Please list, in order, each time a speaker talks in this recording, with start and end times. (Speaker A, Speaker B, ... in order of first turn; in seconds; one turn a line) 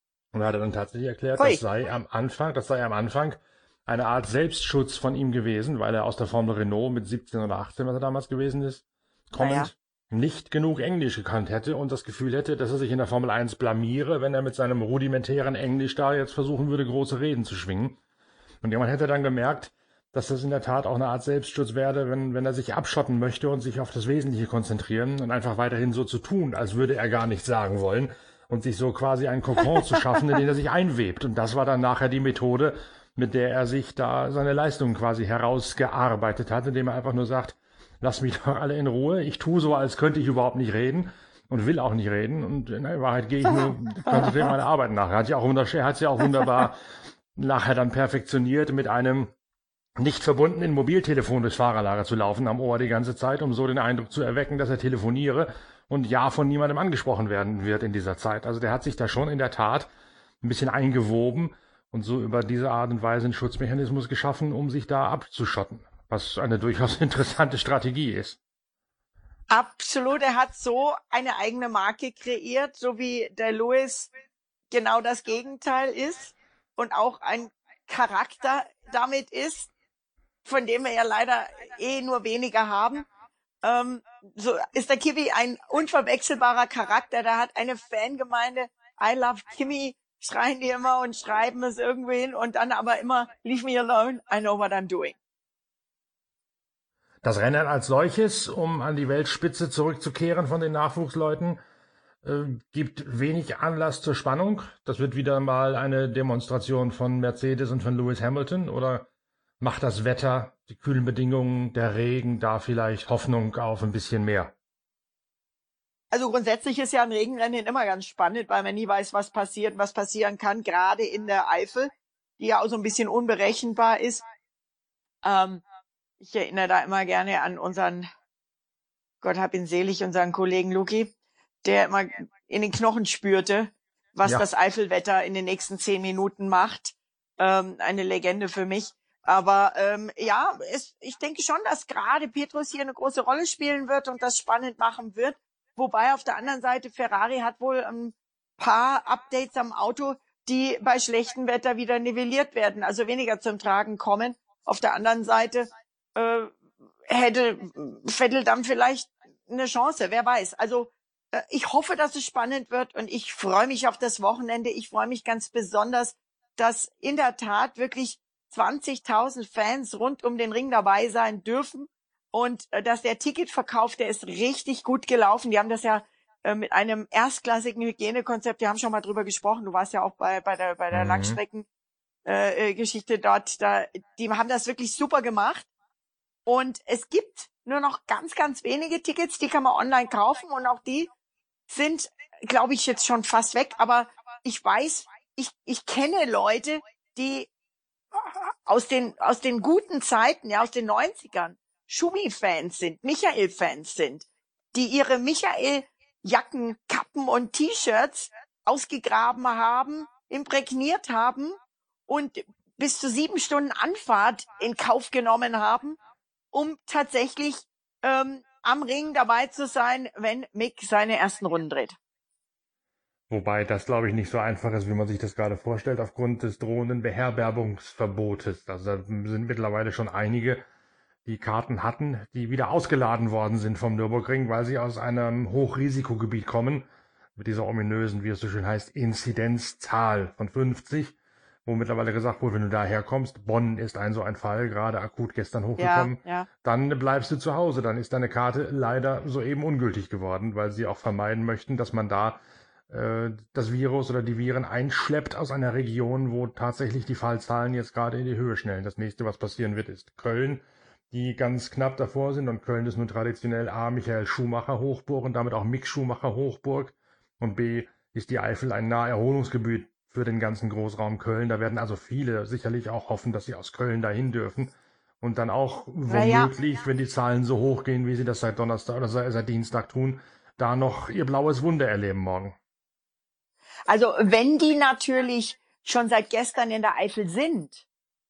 Speaker A: 0.3-18.0
Speaker B: 1.4-1.6
Speaker B: 9.4-9.7
Speaker A: 18.6-46.8
Speaker B: 43.5-44.5
Speaker A: 47.4-49.3
Speaker A: 50.0-59.9
Speaker A: 60.4-68.4
Speaker B: 69.5-74.1
Speaker B: 74.7-79.7
Speaker B: 80.5-83.1
Speaker B: 83.6-95.2
Speaker A: 97.2-101.6
Speaker A: 102.2-109.1
Speaker A: 109.6-114.5
Speaker B: 116.1-124.2
Speaker B: 125.2-125.6
Speaker B: 126.2-128.1
Speaker B: 129.2-131.1
Speaker B: 131.6-181.7
Speaker A: 180.9-181.4
Speaker B: 182.2-185.7
Speaker B: 186.5-191.1
Speaker B: 191.7-197.5
Speaker B: 198.1-211.6
Speaker B: 212.1-216.0
Speaker B: 216.5-222.0
Speaker A: 223.3-230.6
Speaker A: 231.3-236.8
Speaker A: 237.4-241.2
Speaker A: 241.7-282.6
Speaker B: 245.8-246.5
Speaker B: 276.1-276.5
Speaker B: 283.9-287.9